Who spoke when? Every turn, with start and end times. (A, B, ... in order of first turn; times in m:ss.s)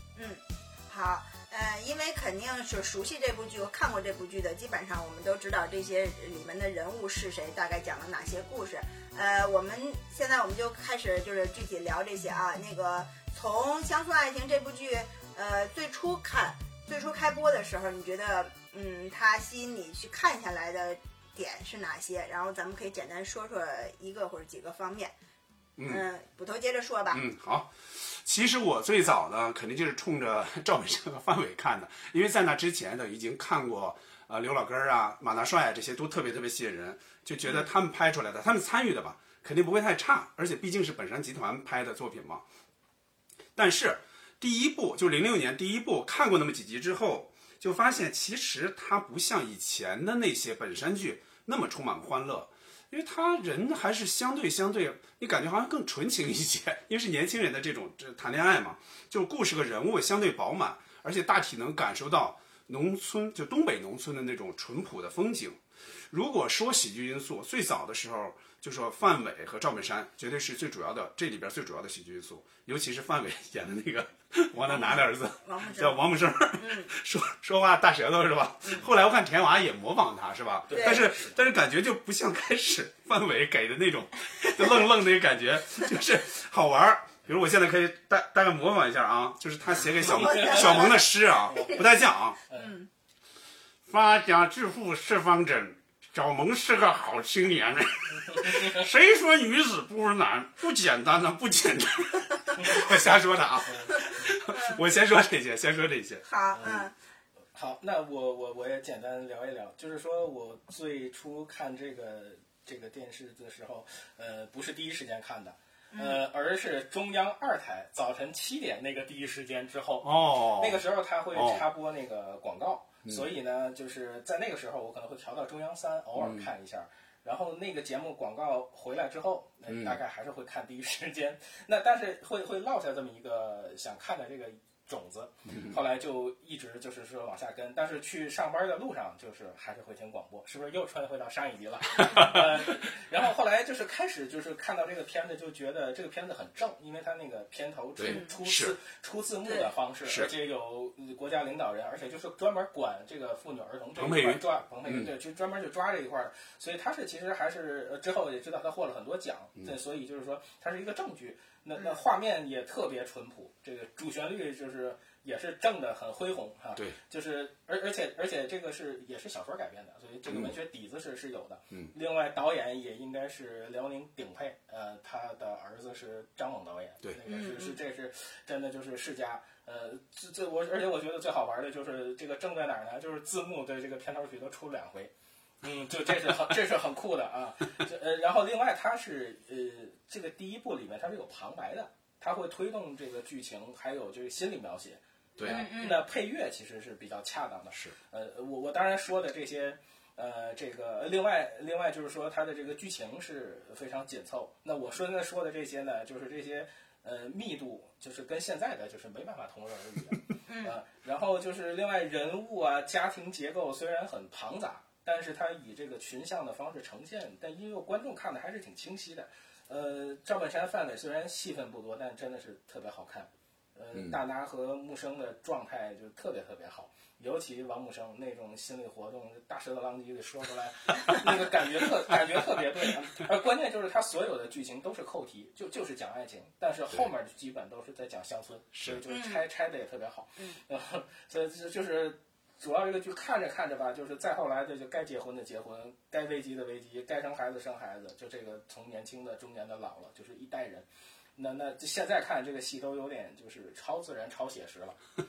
0:00.2-0:25.1 A
0:25.8-0:26.0 B
0:25.9-0:27.2 A
0:27.1-0:42.4 B
0:43.6-1:32.4 B
1:14.6-1:16.9 A
1:20.7-1:21.4 C
1:20.7-1:21.0 A
1:30.0-1:31.8 C
1:30.0-1:31.1 A
1:32.5-1:32.8 C
1:32.5-1:32.9 A
1:33.9-1:46.8 B
1:38.4-1:38.8 C
1:44.5-1:44.8 A
1:46.2-1:46.9 A
1:46.5-1:46.8 C
1:47.6-3:05.1 C
1:55.9-1:56.2 A
2:00.0-2:00.8 B
2:01.3-2:01.6 B
2:06.2-2:06.4 B
2:09.7-2:10.0 B
2:22.1-2:22.4 B
2:28.0-2:28.8 B
2:28.0-2:28.3 A
2:30.1-2:30.3 B
2:34.0-2:35.1 B
2:50.3-2:50.6 B
2:57.3-2:57.8 A
3:05.6-4:15.0 C
3:15.4-3:15.7 B
3:15.4-3:16.0 A
3:30.5-3:30.8 A
3:58.8-3:59.0 B
3:59.1-3:59.4 A